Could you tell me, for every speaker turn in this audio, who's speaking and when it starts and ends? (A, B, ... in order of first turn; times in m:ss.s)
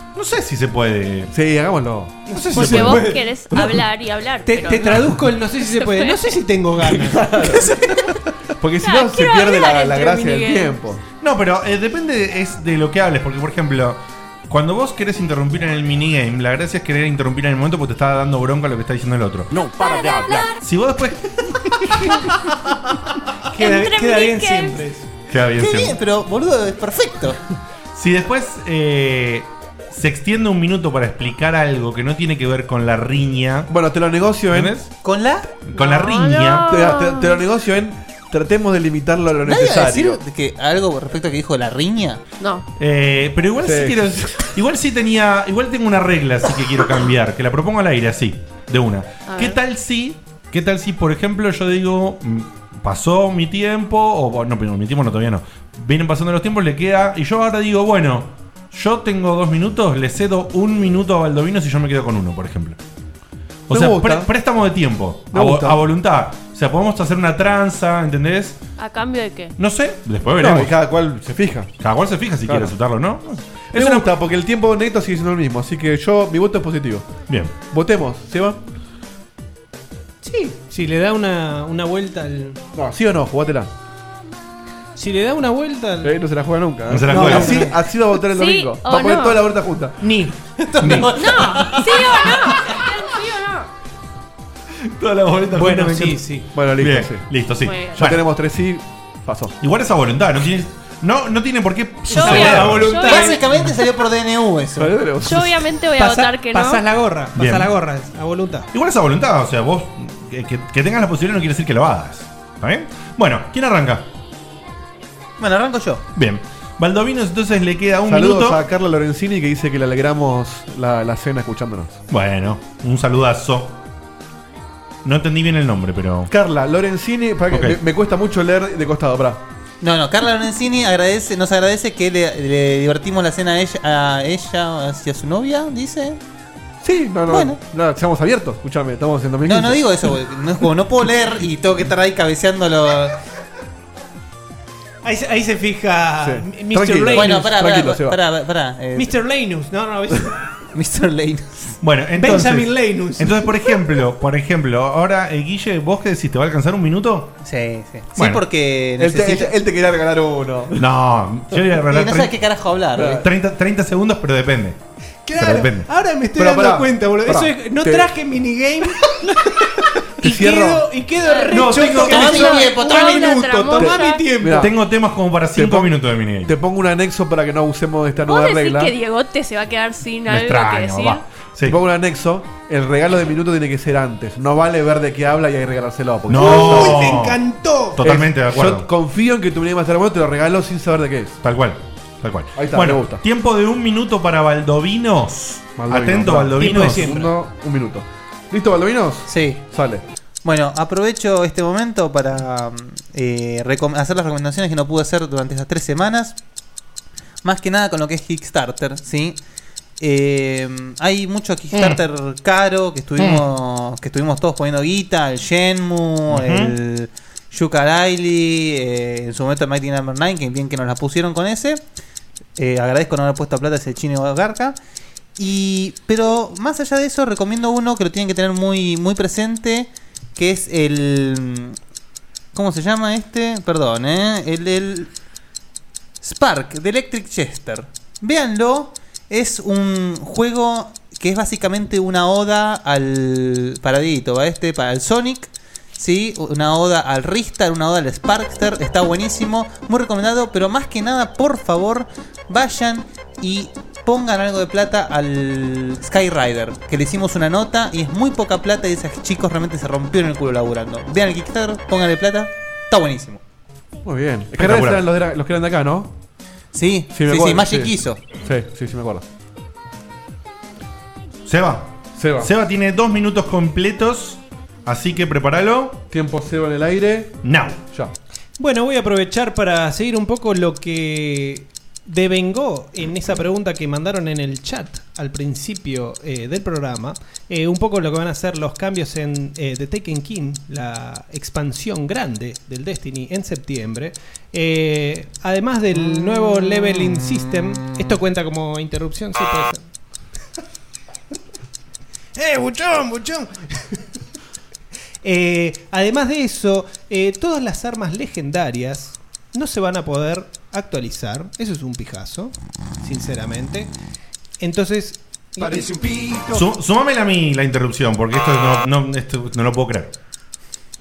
0:00.2-0:01.3 A
0:01.3-0:03.8 B
0:02.3-0:03.2 C
0:02.5-0:06.2 D
0:02.6-0:03.0 A
0:04.4-0:08.0 C
0:06.8-0:07.8 B
0:08.6-0:11.0 B
0:08.8-0:10.8 D
0:11.2-0:19.6 A
0:19.5-0:20.4 B
0:19.9-0:20.5 D
0:20.6-0:22.2 A
0:23.5-0:25.1 C
0:23.6-0:24.8 D
0:25.3-0:26.0 A
0:25.6-0:27.4 E
0:27.9-0:33.7 A
0:33.7-0:34.8 B
0:34.5-0:34.9 A
0:35.0-0:35.5 E
0:35.7-0:36.8 A
0:35.7-0:37.4 D
0:36.6-0:40.2 B
0:39.4-0:42.2 E
0:42.4-0:42.6 D
0:42.8-1:02.8 A
0:43.6-0:44.3 B
0:49.3-0:49.6 D
1:03.7-1:04.3 B
1:03.7-1:08.6 A
1:05.3-1:05.9 B
1:08.8-1:09.6 D
1:09.6-1:10.7 A
1:10.4-1:11.7 B
1:11.8-1:14.1 A
1:12.4-1:12.7 B
1:13.8-1:17.1 B
1:17.3-1:17.5 A
1:17.6-1:18.6 B
1:20.2-1:22.6 C
1:22.7-1:23.7 B
1:25.0-1:26.1 C
1:26.0-1:30.0 B
1:26.9-1:27.6 A
1:27.1-1:27.7 C
1:28.3-1:29.4 D
1:30.0-1:30.4 C
1:30.6-1:32.3 E
1:30.8-1:31.1 A
1:31.1-1:33.7 D
1:34.9-1:38.2 A
1:35.5-1:36.5 C
1:36.5-1:37.2 B
1:37.6-1:38.0 D
1:38.0-1:39.6 B
1:39.6-1:42.9 A
1:42.1-1:43.6 D
1:42.1-1:43.4 C
1:43.0-1:45.0 E
1:44.8-1:45.6 B
1:45.2-1:46.8 D
1:46.0-1:48.7 C
1:47.4-1:47.7 A
1:48.7-1:54.1 A
1:55.4-1:56.0 E
1:56.2-1:58.6 A
1:58.1-2:02.0 B
2:02.1-2:03.8 A
2:05.0-2:06.3 A
2:06.3-2:09.4 B
2:07.5-2:07.8 A
2:09.8-2:16.2 E
2:16.8-2:20.1 B
2:17.3-2:17.6 E
2:19.4-2:23.2 E
2:25.0-2:27.4 C
2:26.2-2:28.2 B
2:27.1-2:29.1 E
2:29.0-2:30.4 C
2:30.7-2:31.8 E
2:31.8-2:37.3 A
2:32.2-2:33.5 C
2:37.4-2:39.5 E
2:38.2-2:38.4 A
2:39.0-2:40.9 B
2:40.8-2:42.4 A
2:41.9-2:43.2 E
2:43.0-2:43.3 B
2:43.0-2:44.8 A
2:45.3-2:49.4 C
2:45.4-2:45.9 A
2:46.4-2:48.1 B
2:50.2-2:50.9 B
2:50.2-2:54.7 C
2:51.2-2:54.3 D
2:51.5-2:52.4 A
2:52.1-2:53.3 E
2:53.8-2:54.8 B
2:54.6-2:56.5 A
2:55.5-2:59.0 B
2:58.2-3:01.2 D
3:00.3-3:01.8 A
3:01.6-3:07.2 B
3:06.3-3:07.4 A
3:06.3-3:08.0 C
3:08.0-3:08.9 A
3:08.0-3:11.4 B
3:11.4-3:17.2 A
3:12.6-3:13.2 B
3:15.8-3:20.0 B
3:16.6-3:17.3 C
3:19.3-3:19.6 E
3:20.4-3:26.4 E
3:27.4-3:29.4 E
3:30.0-3:41.8 E
3:36.3-3:36.8 A
3:42.6-3:44.8 E
3:45.4-3:51.8 E
3:52.5-3:55.1 E
3:56.2-4:23.4 E
4:24.0-4:26.1 B
4:24.6-4:25.0 A
4:26.7-4:28.2 E
4:27.1-4:29.2 B
4:31.5-4:36.0 A
4:32.2-4:32.5 B
4:36.1-4:37.4 B
4:37.4-4:37.8 A
4:38.6-4:59.8 C
5:02.4-5:03.6 C
5:05.2-5:13.9 C
5:14.6-5:16.1 C
5:16.5-5:20.1 A